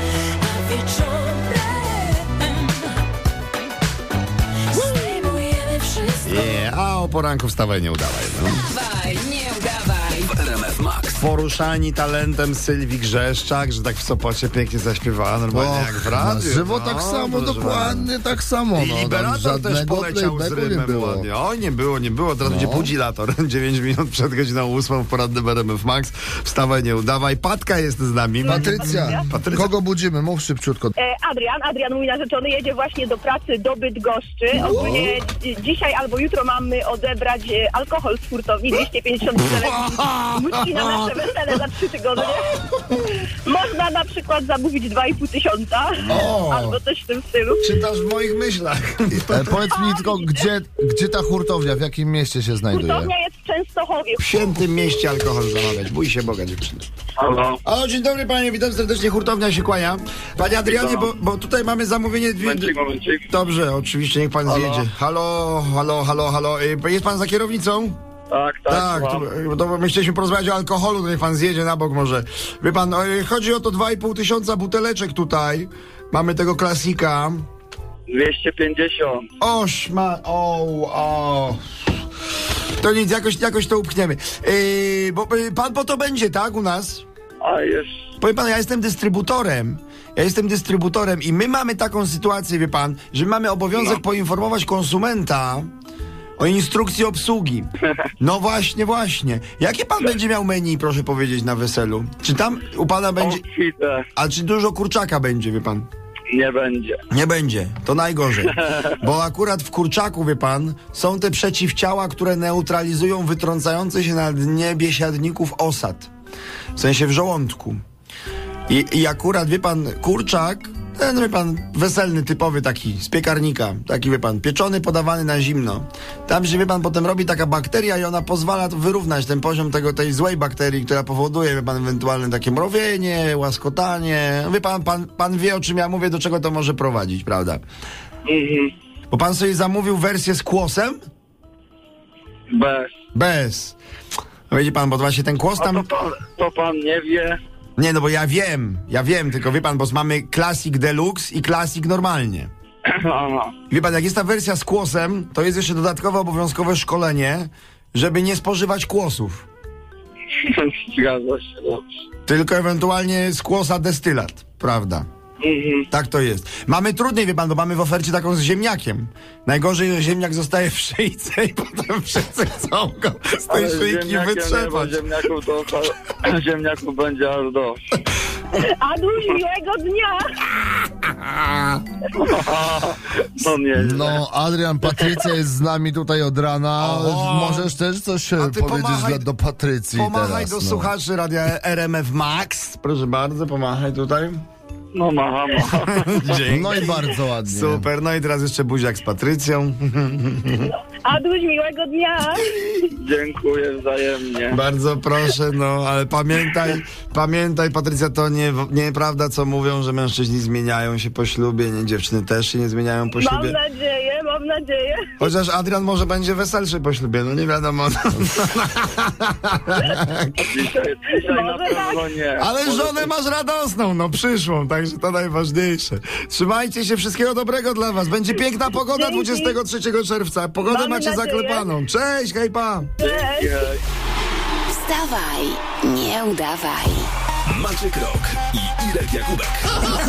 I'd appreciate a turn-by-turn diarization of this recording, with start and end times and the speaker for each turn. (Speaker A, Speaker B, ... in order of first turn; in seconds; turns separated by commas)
Speaker A: 0.4-2.9, Speaker A: 4.7-6.7, Speaker B: 6.2-8.7, Speaker A: 8.6-11.1, Speaker C: 10.6-11.2, Speaker B: 11.1-18.1, Speaker D: 15.5-21.3, Speaker B: 18.8-29.8, Speaker D: 22.4-22.9, Speaker E: 28.4-29.2, Speaker D: 28.5-30.9, Speaker E: 31.0-42.6, Speaker D: 34.5-35.1, Speaker B: 34.6-35.1, Speaker B: 39.5-41.1, Speaker E: 43.4-47.6, Speaker B: 46.1-46.8, Speaker B: 47.6-49.6, Speaker D: 49.1-53.1, Speaker E: 49.7-50.4, Speaker E: 52.7-54.5, Speaker B: 54.2-56.9, Speaker F: 57.2-57.6, Speaker B: 57.6-62.7, Speaker F: 60.6-61.1, Speaker F: 62.4-63.3, Speaker B: 63.3-68.0, Speaker F: 64.5-64.9, Speaker F: 68.3-69.3, Speaker B: 68.7-77.4, Speaker F: 78.1-79.3, Speaker B: 79.4-81.6, Speaker B: 82.8-87.0, Speaker F: 87.4-88.0, Speaker B: 88.2-95.7, Speaker F: 93.7-94.0, Speaker B: 96.4-97.7, Speaker B: 98.2-103.4, Speaker F: 103.2-104.1, Speaker B: 104.2-105.9, Speaker F: 106.3-107.0, Speaker B: 107.1-116.1, Speaker F: 108.4-108.9, Speaker B: 116.8-117.8, Speaker B: 118.7-137.6, Speaker F: 138.3-138.7, Speaker B: 139.1-141.0, Speaker F: 142.5-142.9, Speaker B: 143.1-143.8, Speaker B: 144.5-145.9, Speaker F: 145.6-147.4, Speaker B: 147.8-152.5, Speaker F: 152.9-153.5, Speaker B: 153.7-159.4, Speaker F: 160.4-162.0, Speaker B: 162.3-165.1, Speaker F: 165.4-165.9, Speaker B: 165.9-175.0, Speaker F: 173.5-177.9, Speaker E: 178.6-180.2, Speaker B: 181.0-181.8, Speaker F: 182.2-184.2, Speaker D: 183.8-190.9, Speaker B: 186.8-187.7, Speaker B: 188.4-189.3, Speaker B: 189.9-194.4, Speaker F: 194.9-196.9, Speaker B: 196.1-200.7, Speaker D: 196.5-197.9, Speaker E: 201.0-202.6, Speaker F: 202.9-204.6, Speaker B: 204.5-213.6, Speaker E: 213.2-215.0, Speaker B: 215.2-220.5, Speaker F: 220.3-223.1, Speaker E: 221.2-222.0, Speaker B: 222.4-232.9, Speaker E: 228.8-229.6, Speaker E: 230.6-231.7, Speaker E: 233.0-233.7, Speaker F: 233.0-233.8, Speaker A: 234.7-237.1, Speaker C: 237.5-239.8